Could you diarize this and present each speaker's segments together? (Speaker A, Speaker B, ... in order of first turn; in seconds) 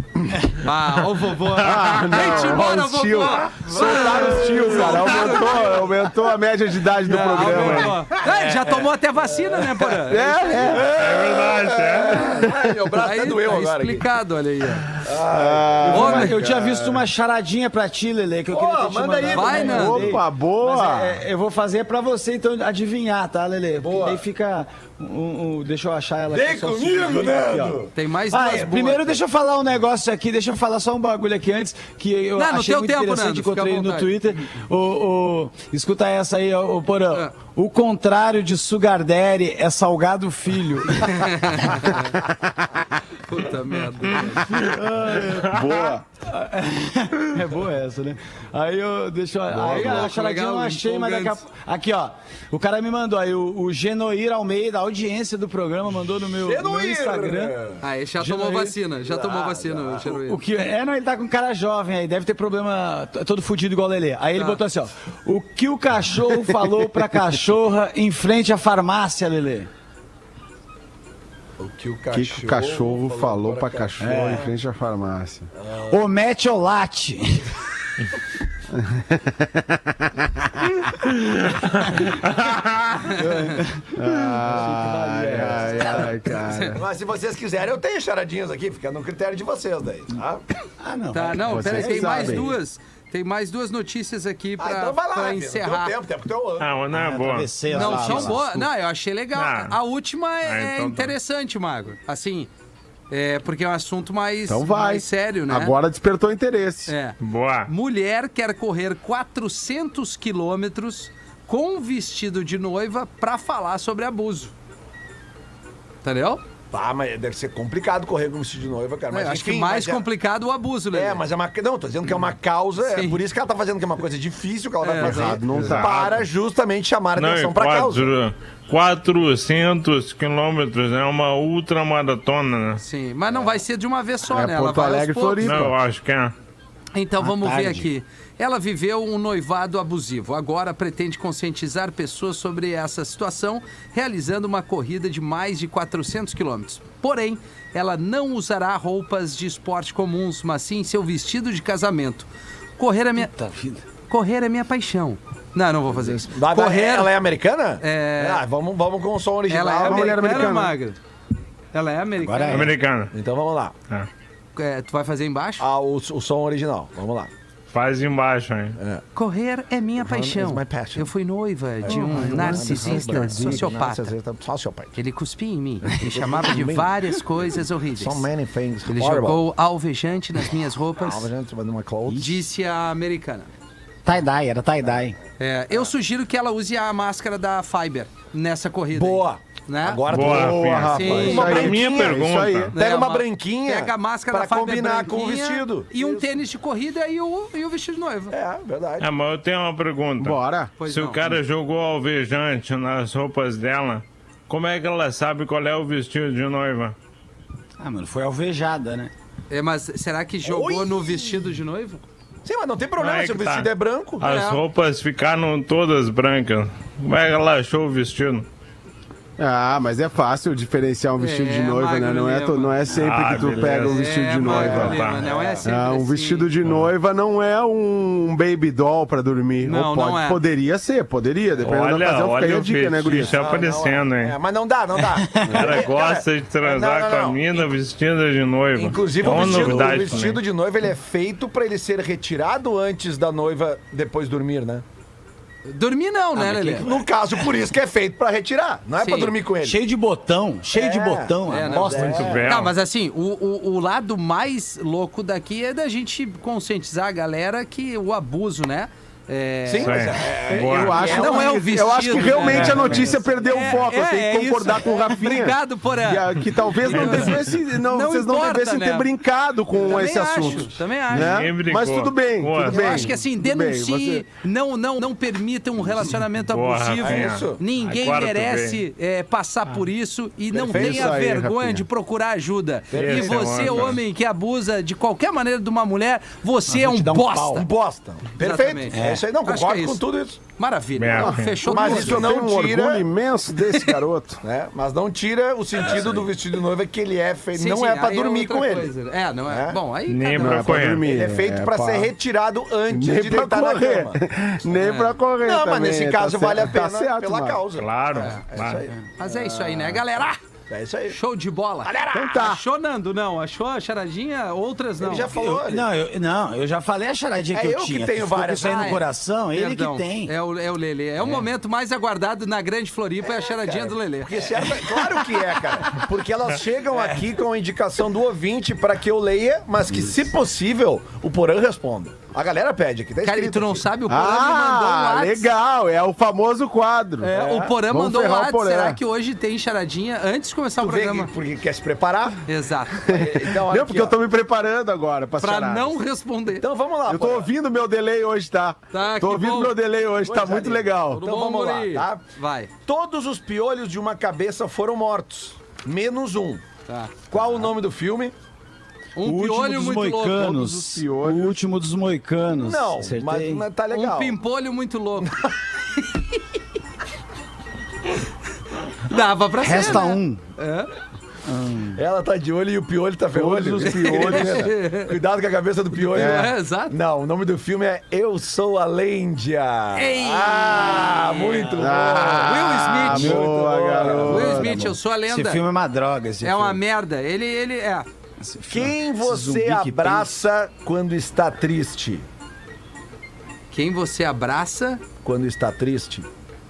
Speaker A: 0.6-6.0, 7.0-10.7, 12.9-14.9, 15.9-16.4, 19.3-20.1, 27.9-29.1, 32.4-34.1, 41.1-42.2, 43.2-44.5, 49.7-51.4, 57.8-60.4, 64.4-64.6, 83.1-83.5, 86.4-86.8, 91.1-96.0, 97.7-102.5, 103.1-105.8, 106.9-114.5, 116.0-116.4, 119.1-121.2, 122.8-123.2, 124.8-125.8, 132.8-135.6, 136.9-153.3, 154.1-157.2, 157.8-158.4, 159.5-161.0, 161.7-162.7, 164.6-165.7, 169.2-174.1, 174.9-178.3, 178.9-181.3, 182.1-183.5, 185.4-190.3, 190.9-191.7, 192.8-198.3, 200.8-201.3, 209.5-212.0, 214.2-214.6, 221.2-222.8, 223.7-226.5, 229.6-230.4, 245.7-246.9, 249.0-249.3, 251.5-269.1, 269.7-271.5, 272.7-287.7, 288.4-292.3, 297.6-300.8, 304.8-305.2, 308.2-308.4, 309.2-310.4, 311.1-315.4, 318.6-324.4, 333.2-335.5, 337.2-341.3, 342.5-343.0, 345.4-346.6, 348.9-349.8, 351.1-352.7, 356.9-357.1, 359.2-360.8, 363.9-365.4, 369.1-370.9, 373.8-375.1, 376.0-376.9, 380.0-383.4, 384.2-385.6, 386.4-388.1, 393.7-395.0
Speaker B: 1.6-8.0, 10.1-10.9, 15.2-17.1, 19.6-21.2, 44.6-46.0, 49.5-50.0, 72.1-75.5, 78.7-80.6, 84.0-86.8, 91.4-92.5, 97.7-98.4, 104.5-106.9, 125.0-126.2, 134.3-135.8, 159.8-160.8, 190.1-192.8, 200.2-200.7, 219.4-225.0, 225.7-233.5, 260.7-274.2, 280.7-281.8, 291.2-294.4, 300.4-302.1, 302.9-307.7, 312.1-312.6, 334.1-337.3, 337.8-339.0, 343.1-346.0, 347.1-351.3, 360.5-361.6, 373.3-374.7, 376.2-376.5, 381.8-384.9
Speaker C: 1.8-2.0, 7.5-7.9, 10.9-12.3, 96.6-97.5, 99.3-99.8, 100.4-101.2, 107.2-107.7, 127.2-132.8, 135.4-136.3, 162.5-163.1, 167.7-168.8, 190.1-192.7, 199.0-207.0, 213.0-213.7, 214.2-218.5, 222.9-225.3, 226.7-226.9, 231.6-234.4, 235.5-240.4, 252.1-252.8, 259.8-261.2, 271.1-273.0, 276.4-278.8, 282.9-284.0, 291.0-291.6, 300.1-301.0, 307.8-308.9
Speaker D: 3.5-5.1, 8.2-8.8, 9.5-10.1, 10.6-14.0, 15.0-15.9, 18.5-19.9, 23.8-24.2, 26.3-27.9, 56.4-57.8, 59.0-60.0, 71.6-74.5, 86.7-90.4, 91.9-92.4, 94.6-96.8, 116.7-120.1, 120.9-128.1, 156.1-160.6, 163.1-163.7, 165.6-167.3, 168.8-169.0, 170.0-171.1, 171.8-174.9, 176.0-176.9, 178.0-179.4, 181.0-182.3, 188.9-192.2, 192.8-196.3, 198.3-199.1, 210.5-211.1, 212.4-214.2, 224.8-225.7, 233.2-237.4, 238.8-244.8, 246.4-249.8, 250.7-252.4, 259.7-263.2, 277.0-277.6, 280.5-281.2, 282.9-284.0, 287.6-290.4, 291.7-293.1, 294.4-298.9, 299.5-299.8, 301.0-304.2, 305.4-309.5, 310.7-311.2, 311.9-312.4, 315.0-315.9, 317.5-319.0, 323.3-333.9, 337.3-337.8, 340.8-342.4, 343.1-344.2, 346.6-347.5, 350.2-352.2, 352.9-356.6, 357.3-358.3, 362.6-364.4, 372.0-384.7, 388.7-392.2, 395.2-396.3
Speaker E: 15.8-41.7, 44.6-45.5, 46.3-57.5, 58.2-58.8, 60.0-69.7, 74.0-74.5, 75.9-77.5, 83.2-86.1, 90.8-92.5, 96.9-98.6, 137.2-137.9, 153.2-153.8, 162.2-162.8, 172.0-173.7, 184.1-185.2, 207.8-209.1, 239.3-240.2, 249.6-252.4, 286.7-287.6, 288.9-289.3, 315.4-320.3, 359.2-363.6, 369.6-370.4, 371.5-372.0, 383.1-386.8, 388.4-390.4